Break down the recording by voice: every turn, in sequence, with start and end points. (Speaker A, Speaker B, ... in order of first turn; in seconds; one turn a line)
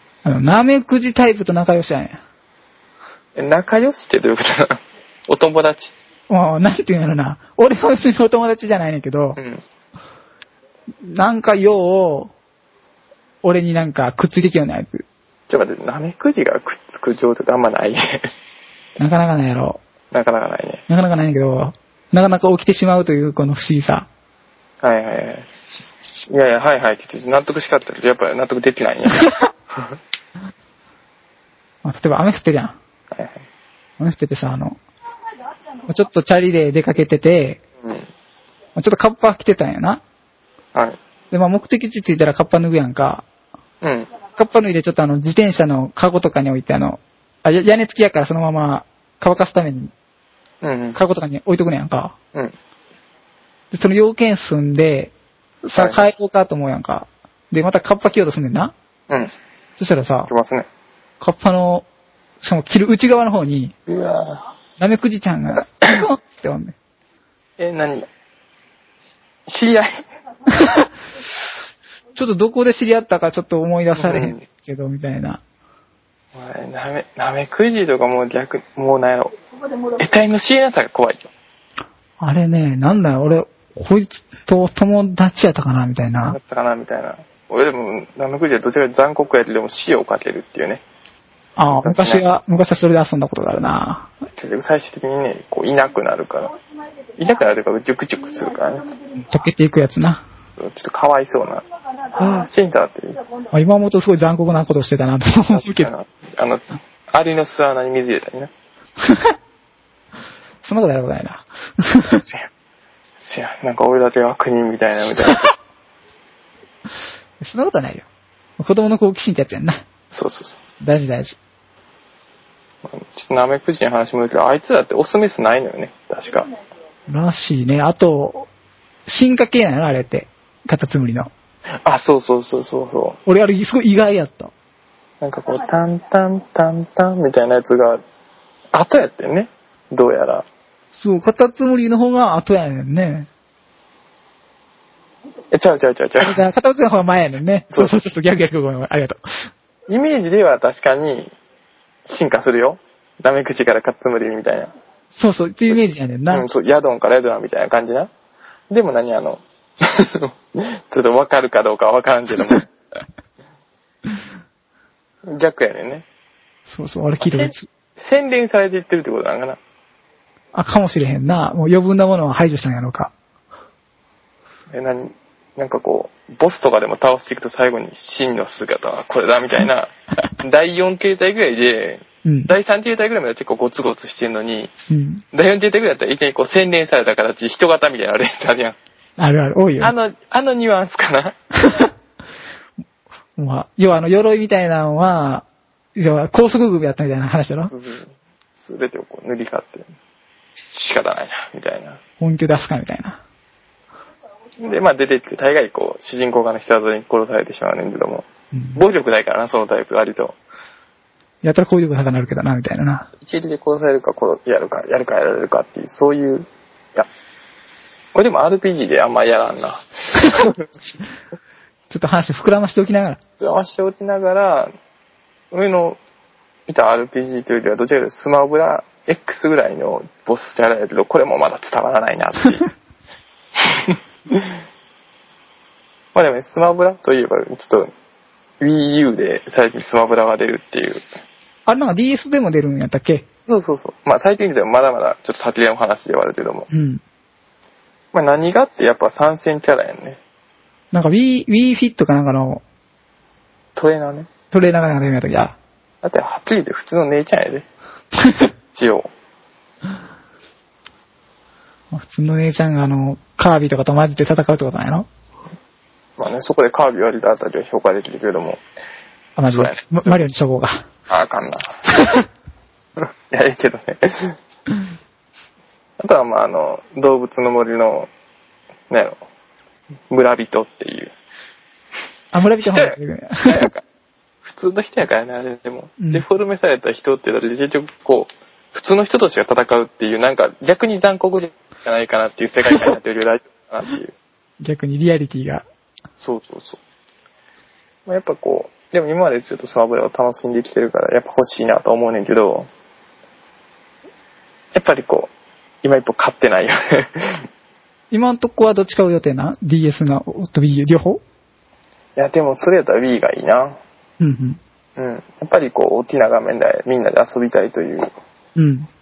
Speaker A: 0.2-2.2
Speaker B: 3.4-5.9
Speaker A: 6.3-9.4
Speaker B: 9.4-9.6
Speaker A: 11.1-12.3
Speaker A: 13.4-15.0
Speaker B: 15.5-18.2
Speaker A: 19.0-19.8
Speaker B: 20.1-20.8
Speaker A: 20.9-24.1
Speaker B: 24.8-25.5
Speaker B: 26.3-29.9
Speaker A: 31.8-32.8
Speaker B: 33.1-33.4
Speaker A: 34.0-34.8
Speaker A: 35.9-37.6
Speaker B: 37.8-38.1
Speaker A: 38.8-40.0
Speaker A: 41.3-43.2
Speaker B: 43.8-44.1
Speaker A: 44.4-49.9
Speaker B: 50.6-51.0
Speaker A: 51.0-52.1
Speaker A: 53.7-58.7
Speaker B: 55.8-56.1
Speaker A: 59.8-60.3
Speaker B: 60.3-60.7
Speaker A: 61.2-61.9
Speaker A: 62.4-63.7
Speaker B: 63.9-64.4
Speaker A: 64.8-66.8
Speaker B: 67.6-68.1
Speaker B: 69.5-70.0
Speaker A: 70.6-70.9
Speaker A: 72.1-75.4
Speaker B: 73.9-74.4
Speaker B: 76.3-79.3
Speaker B: 80.0-81.3
Speaker A: 82.2-86.4
Speaker B: 86.3-90.8
Speaker A: 91.5-94.1
Speaker B: 91.7-92.2
Speaker B: 94.4-96.5
Speaker B: 97.2-98.9
Speaker A: 99.2-100.2
Speaker B: 100.6-103.2
Speaker A: 103.5-105.9
Speaker B: 105.5-108.5
Speaker A: 109.0-109.3
Speaker A: 110.6-112.2
Speaker B: 112.1-112.5
Speaker B: 113.2-115.5
Speaker A: 117.4-118.1
Speaker A: 118.6-119.8
Speaker B: 120.1-120.6
Speaker A: 120.8-121.4
Speaker B: 122.8-126.5
Speaker A: 127.1-128.5
Speaker A: 129.1-131.3
Speaker B: 131.8-133.2
Speaker A: 133.2-134.5
Speaker B: 135.2-138.0
Speaker B: 138.7-140.4
Speaker A: 140.9-143.3
Speaker B: 145.5-146.4
Speaker A: 146.2-149.5
Speaker B: 149.9-151.3
Speaker B: 152.1-154.7
Speaker A: 155.1-156.4
Speaker B: 156.3-158.1
Speaker B: 158.7-162.7
Speaker B: 165.3-166.0
Speaker A: 166.7-167.7
Speaker B: 167.2-169.6
Speaker A: 170.5-173.1
Speaker B: 174.7-184.7
Speaker A: 182.2-182.5
Speaker A: 184.9-185.2
Speaker B: 185.3-188.8
Speaker A: 189.2-189.9
Speaker B: 189.8-191.3
Speaker A: 193.4-197.7
Speaker B: 197.7-199.9
Speaker B: 200.7-202.0
Speaker A: 202.2-203.2
Speaker B: 204.6-210.4
Speaker A: 208.5-208.8
Speaker A: 211.4-213.1
Speaker B: 213.2-217.1
Speaker B: 218.1-220.6
Speaker A: 221.9-223.2
Speaker B: 223.4-224.7
Speaker B: 225.5-226.0
Speaker B: 226.7-232.7
Speaker B: 233.7-234.6
Speaker B: 236.1-237.9
Speaker B: 238.6-241.0
Speaker A: 241.7-243.2
Speaker B: 243.5-246.7
Speaker A: 246.7-247.0
Speaker B: 248.1-250.2
Speaker A: 250.9-252.6
Speaker B: 253.8-254.3
Speaker A: 254.5-255.6
Speaker B: 256.0-257.6
Speaker A: 258.2-258.5
Speaker B: 258.7-259.1
Speaker A: 261.9-265.1
Speaker B: 266.2-268.6
Speaker A: 269.4-270.8
Speaker B: 269.5-270.2
Speaker B: 271.1-271.9
Speaker B: 273.3-274.4
Speaker B: 276.0-278.1
Speaker B: 278.9-279.2
Speaker B: 280.1-281.1
Speaker A: 282.3-283.7
Speaker B: 282.6-283.8
Speaker B: 284.4-294.1
Speaker A: 286.0-286.2
Speaker A: 294.6-295.6
Speaker B: 296.2-296.8
Speaker B: 298.1-302.7
Speaker B: 304.7-305.3
Speaker B: 305.8-307.4
Speaker A: 308.1-311.2
Speaker B: 312.1-313.8
Speaker A: 314.2-314.6
Speaker B: 315.0-318.1
Speaker A: 318.6-318.9